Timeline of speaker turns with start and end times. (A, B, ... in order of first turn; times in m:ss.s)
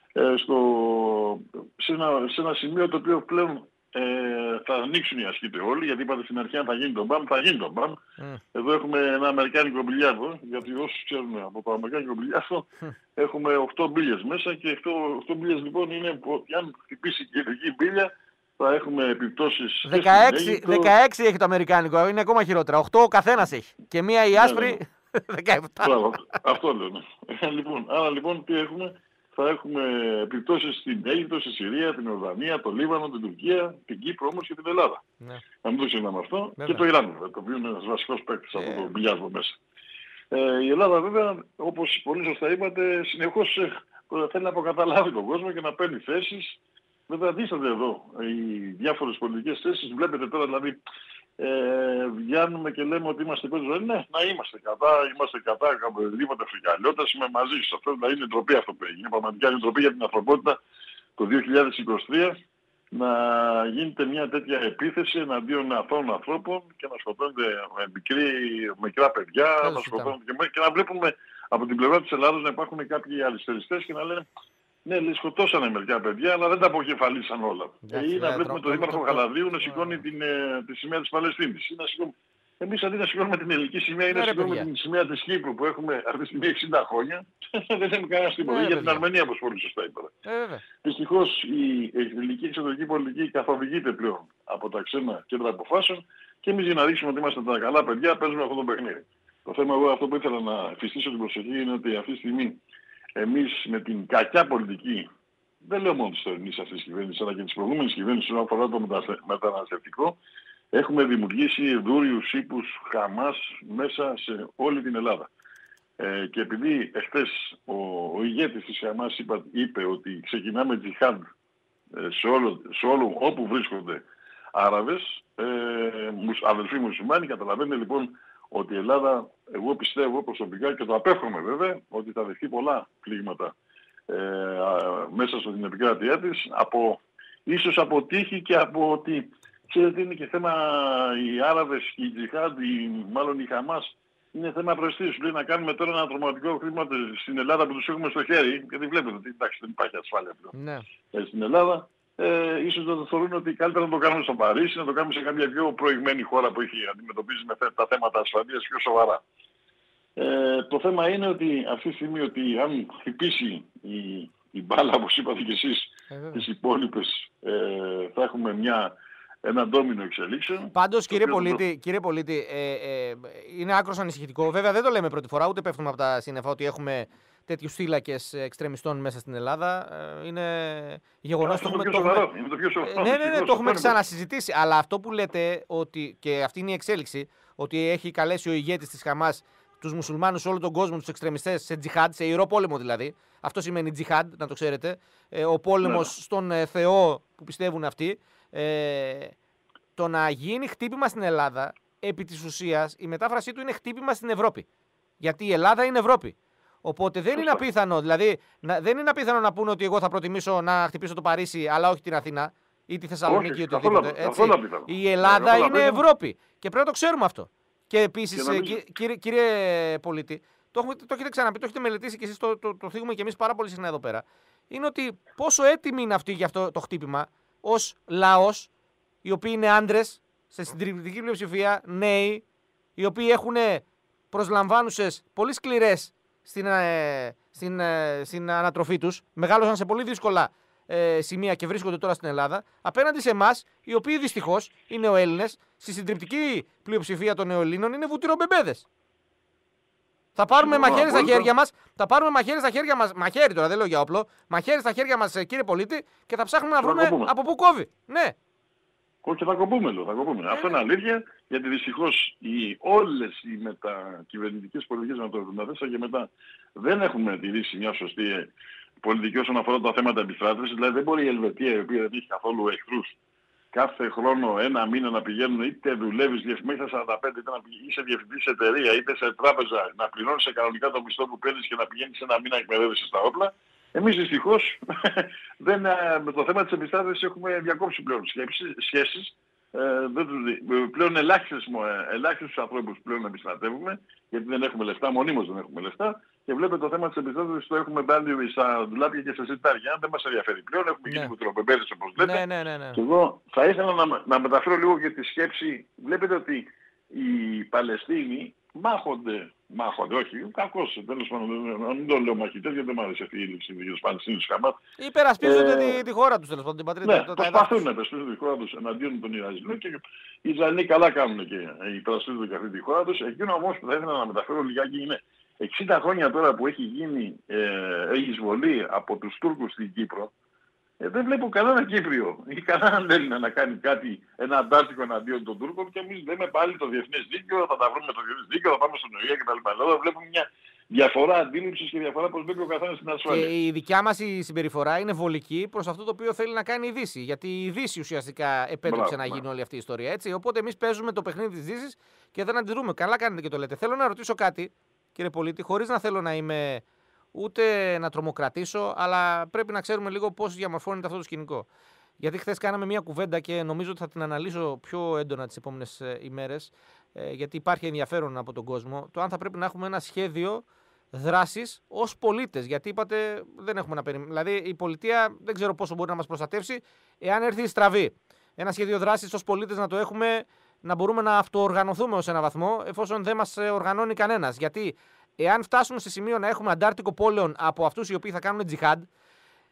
0:00.2-0:08.0 A
0:08.5-0:20.9 A
0:19.8-0:26.0 B
0:24.3-0:24.8 A
0:25.8-0:35.0 A
0:35.6-0:39.6 A
0:36.6-0:36.8 B
0:38.6-0:38.9 B
0:40.3-0:50.8 A
0:51.4-1:00.6 A
1:01.2-1:02.4 A
1:02.9-1:14.2 A
1:09.6-1:10.1 B
1:14.8-1:30.1 A
1:17.8-1:20.0 B
1:24.1-1:24.7 B
1:28.4-1:29.0 B
1:30.2-1:30.6 B
1:30.8-1:42.6 A
1:43.2-1:45.1 A
1:45.6-1:50.2 A
1:50.7-1:55.3 A
1:56.0-2:01.2 A
2:02.0-2:13.5 A
2:14.1-2:30.5 A
2:30.5-2:30.8 B
2:31.1-2:39.2 A
2:40.2-2:48.9 A
2:46.1-2:46.4 B
2:49.4-2:51.6 A
2:50.7-3:02.2 B
3:01.4-3:04.0 A
3:02.8-3:19.3 B
3:15.8-3:16.1 A
3:20.0-3:24.6 B
3:25.2-3:48.7 B
3:27.3-3:27.6 A
3:33.3-3:36.0 A
3:38.3-3:38.8 A
3:49.2-3:52.4 B
3:53.0-4:08.8 B
4:10.4-4:18.3 B
4:10.6-4:11.5 A
4:16.8-4:17.3 A
4:19.2-4:33.2 A
4:20.5-4:20.8 B
4:33.7-5:02.4 A
5:01.0-5:01.3 B
5:02.2-5:03.0 B
5:02.9-5:14.8 A
5:15.0-5:17.8 B
5:15.4-5:16.0 A
5:17.0-5:30.3 A
5:31.0-5:43.5 A
5:43.3-6:01.7 B
5:48.8-5:49.4 A
6:02.2-6:29.1 B